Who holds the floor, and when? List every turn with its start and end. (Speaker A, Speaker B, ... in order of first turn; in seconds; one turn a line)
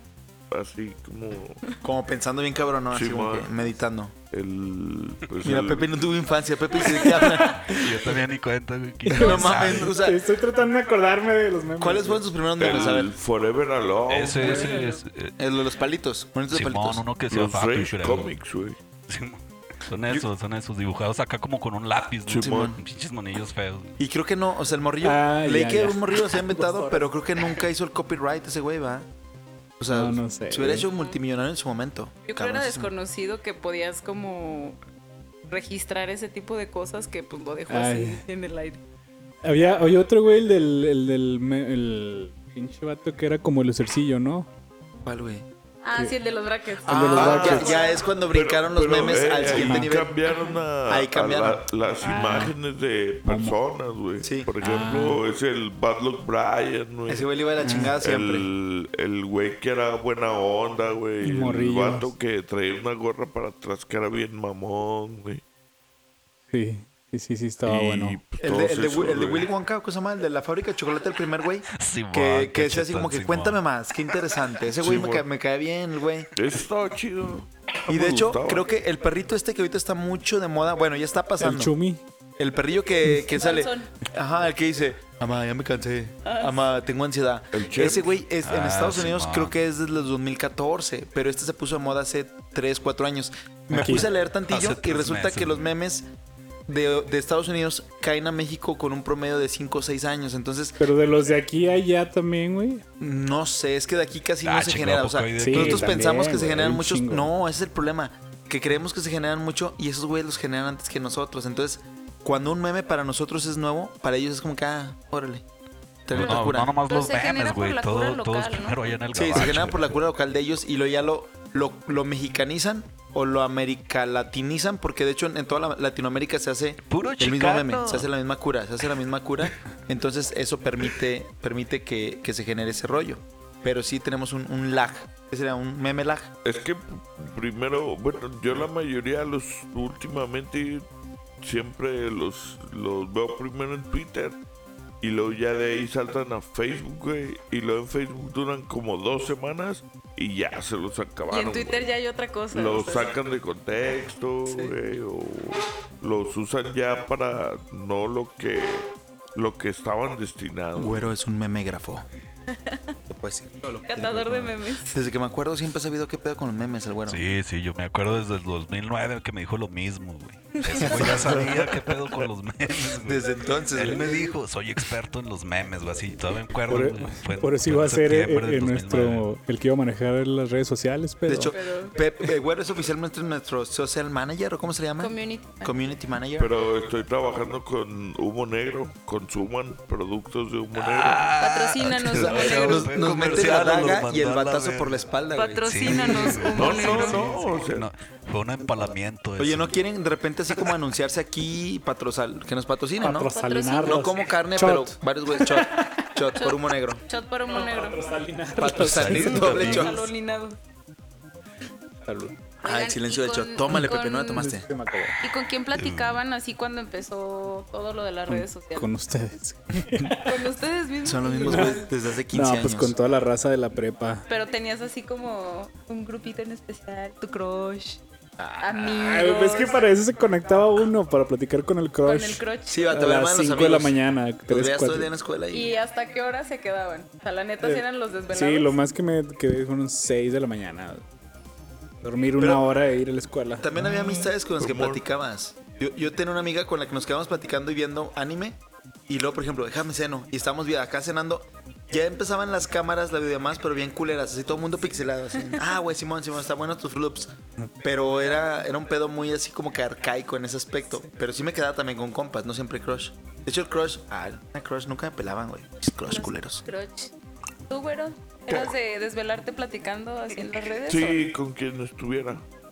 Speaker A: 0.5-1.6
Speaker B: 1.8-4.1
Speaker A: 2.9-3.7
Speaker A: 4.3-5.9
Speaker B: 5.4-7.7
Speaker C: 6.9-7.9
Speaker D: 7.7-9.9
Speaker B: 9.1-10.2
Speaker E: 9.2-9.6
Speaker C: 9.2-12.2
Speaker B: 11.8-13.1
Speaker A: 12.6-14.7
Speaker D: 14.1-15.3
Speaker C: 14.4-14.8
Speaker E: 14.5-15.0
Speaker B: 15.4-17.1
Speaker D: 16.5-18.3
Speaker A: 17.3-18.8
Speaker D: 19.1-24.0
Speaker A: 22.3-22.7
Speaker B: 22.4-22.8
Speaker B: 24.0-29.1
Speaker C: 25.0-26.8
Speaker B: 29.8-32.9
Speaker C: 29.9-30.9
Speaker E: 32.3-34.8
Speaker E: 35.5-38.8
Speaker C: 37.7-38.2
Speaker C: 39.4-44.5
Speaker B: 45.0-45.5
Speaker E: 45.8-48.2
Speaker C: 46.9-47.8
Speaker B: 46.9-50.1
Speaker A: 48.3-57.3
Speaker C: 49.5-49.9
Speaker E: 50.3-50.6
Speaker B: 50.9-51.7
Speaker C: 52.0-52.6
Speaker C: 53.2-53.6
Speaker B: 54.2-54.5
Speaker C: 54.6-55.2
Speaker B: 57.1-58.5
Speaker C: 57.6-58.0
Speaker A: 58.0-65.4
Speaker C: 61.2-62.1
Speaker C: 66.5-68.2
Speaker A: 67.7-69.5
Speaker B: 68.4-76.3
Speaker D: 71.8-73.6
Speaker A: 74.8-75.2
Speaker A: 76.3-78.7
Speaker B: 77.9-81.8
Speaker C: 81.4-82.0
Speaker B: 82.4-96.1
Speaker E: 83.3-83.9
Speaker E: 86.2-86.6
Speaker A: 87.5-88.1
Speaker D: 88.4-89.5
Speaker D: 93.7-95.7
Speaker C: 93.7-94.1
Speaker B: 96.7-100.8
Speaker C: 100.8-102.8
Speaker B: 103.0-115.4
Speaker D: 104.4-105.9
Speaker C: 105.4-107.3
Speaker B: 116.1-116.7
Speaker D: 116.1-119.9
Speaker E: 116.1-119.0
Speaker B: 119.2-136.3
Speaker D: 126.9-128.1
Speaker A: 136.4-140.8
Speaker A: 141.4-144.4
Speaker A: 145.0-151.8
Speaker E: 151.3-153.2
Speaker A: 152.5-161.1
Speaker E: 154.5-154.7
Speaker B: 160.8-162.1
Speaker E: 162.5-163.0
Speaker B: 163.1-167.2
Speaker E: 163.8-165.0
Speaker D: 167.1-179.3
Speaker E: 170.7-171.1
Speaker B: 170.9-171.5
Speaker A: 171.1-171.4
Speaker B: 172.9-174.1
Speaker C: 176.7-181.6
Speaker B: 181.3-186.5
Speaker E: 181.5-182.0
Speaker E: 185.0-185.9
Speaker A: 186.4-191.3
Speaker D: 190.7-195.0
Speaker E: 191.4-192.9
Speaker B: 192.1-196.5
Speaker A: 192.1-192.4
Speaker E: 195.3-197.3
Speaker D: 195.7-199.8
Speaker A: 196.4-197.9
Speaker B: 199.4-207.0
Speaker C: 203.0-205.5
Speaker E: 203.1-204.3
Speaker E: 206.4-208.1
Speaker C: 207.5-209.8
Speaker B: 208.6-210.0
Speaker D: 208.8-210.1
Speaker E: 209.1-210.6
Speaker C: 212.1-212.4
Speaker E: 212.6-214.5
Speaker B: 212.6-214.7
Speaker C: 213.7-215.2
Speaker D: 215.1-216.2
Speaker E: 215.2-218.9
Speaker C: 218.3-220.4
Speaker E: 220.2-221.9
Speaker B: 221.0-222.9
Speaker C: 221.4-224.2
Speaker E: 224.3-228.0
Speaker B: 228.4-228.8
Speaker E: 228.6-229.8
Speaker C: 228.9-235.1
Speaker E: 232.0-232.9
Speaker B: 232.7-234.0
Speaker B: 234.5-235.7
Speaker E: 235.5-238.8
Speaker C: 237.6-241.1
Speaker C: 242.0-243.7
Speaker B: 242.4-242.6
Speaker B: 243.6-266.6
Speaker A: 243.8-245.0
Speaker E: 266.1-267.1
Speaker E: 267.7-271.3
Speaker A: 270.8-272.4